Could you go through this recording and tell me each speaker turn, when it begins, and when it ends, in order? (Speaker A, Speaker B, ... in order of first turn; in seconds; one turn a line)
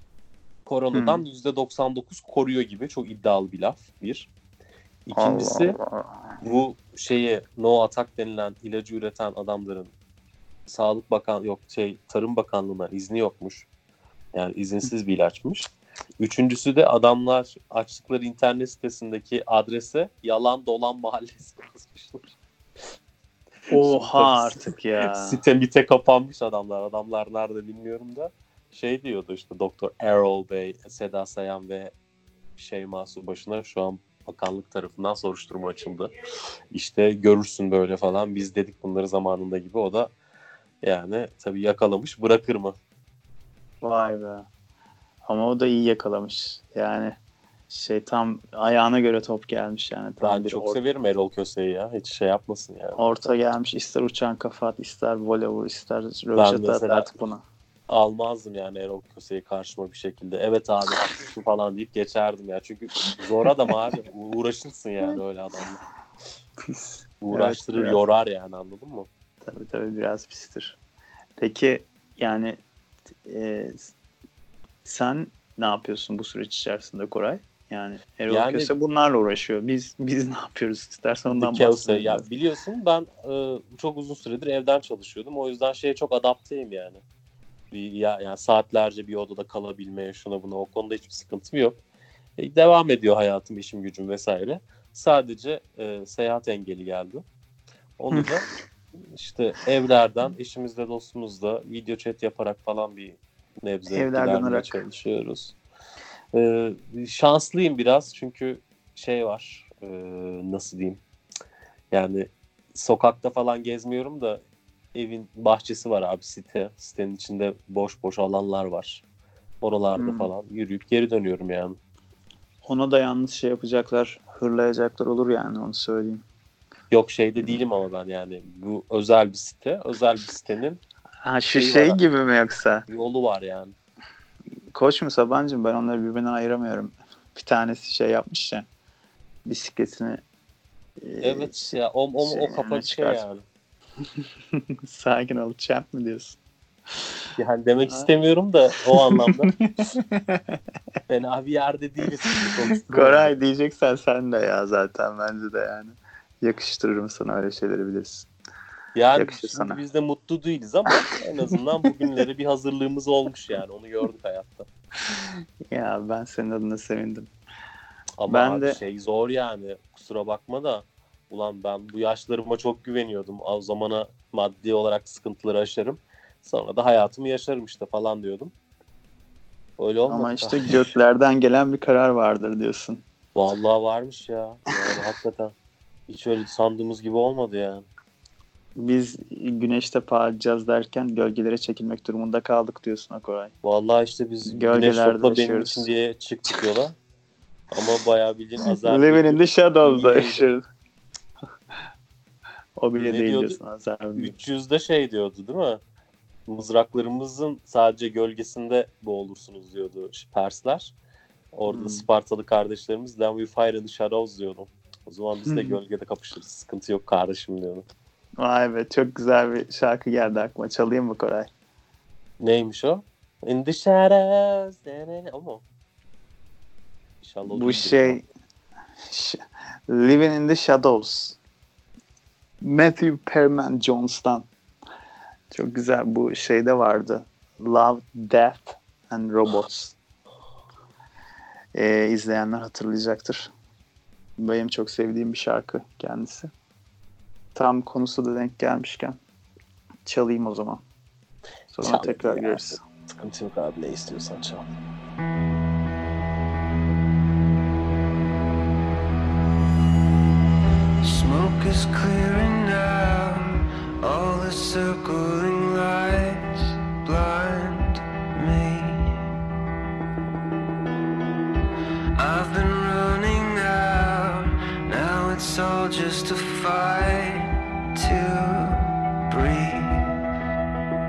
Speaker A: 0.7-4.3
Speaker B: 0.9-1.2
Speaker A: 5.1-5.8
Speaker B: 5.1-6.1
Speaker A: 6.4-9.9
Speaker A: 10.7-13.7
Speaker A: 14.3-22.3
Speaker A: 23.7-31.9
Speaker B: 23.7-25.4
Speaker A: 32.6-36.1
Speaker A: 36.7-40.1
Speaker A: 40.8-42.8
Speaker B: 43.8-44.5
Speaker B: 45.2-47.1
Speaker B: 47.7-50.8
Speaker A: 50.2-53.0
Speaker B: 53.0-57.4
Speaker A: 56.4-57.1
Speaker A: 57.9-65.8
Speaker B: 66.6-68.0
Speaker A: 67.2-69.1
Speaker B: 69.4-70.8
Speaker B: 71.4-72.6
Speaker B: 73.2-73.9
Speaker B: 74.8-82.2
Speaker A: 78.3-78.7
Speaker A: 81.3-87.0
Speaker A: 87.7-91.8
Speaker A: 92.4-97.2
Speaker A: 98.0-98.5
Speaker A: 99.1-105.5
Speaker B: 103.9-104.8
Speaker A: 106.3-111.0
Speaker A: 111.9-114.4
Speaker A: 114.9-119.0
Speaker A: 119.6-121.8
Speaker B: 120.0-120.3
Speaker B: 122.6-126.2
Speaker A: 126.9-130.8
Speaker B: 131.2-132.8
Speaker A: 131.5-132.0
Speaker A: 132.9-133.7
Speaker B: 134.7-138.7
Speaker B: 139.4-140.2
Speaker B: 141.0-141.7
Speaker A: 141.2-143.4
Speaker B: 142.2-143.2
Speaker B: 144.8-146.4
Speaker A: 147.4-149.5
Speaker B: 148.9-150.4
Speaker A: 151.1-153.3
Speaker B: 152.4-158.3
Speaker A: 158.9-164.7
Speaker B: 159.2-159.8
Speaker B: 165.7-167.3
Speaker A: 168.2-178.5
Speaker B: 168.3-168.8
Speaker A: 179.8-180.8
Speaker B: 180.1-183.0
Speaker A: 183.3-185.5
Speaker A: 186.1-187.8
Speaker B: 188.8-193.5
Speaker A: 193.6-196.9
Speaker B: 194.4-195.9
Speaker A: 197.7-200.4
Speaker B: 198.6-200.6
Speaker B: 202.8-204.3
Speaker A: 203.0-203.6
Speaker A: 204.2-205.8
Speaker A: 206.5-210.9
Speaker A: 211.5-217.8
Speaker B: 211.7-212.0
Speaker B: 215.5-215.8
Speaker B: 218.4-221.5
Speaker A: 222.4-225.6
Speaker A: 227.2-228.2
Speaker B: 227.5-228.2
Speaker B: 229.1-231.4
Speaker B: 232.6-234.5
Speaker B: 235.5-239.9
Speaker B: 241.7-243.5
Speaker B: 244.4-246.5
Speaker B: 247.5-249.2
Speaker B: 250.1-250.8
Speaker B: 251.7-252.8
Speaker A: 251.8-254.7
Speaker C: 261.0-269.2
Speaker C: 272.1-280.1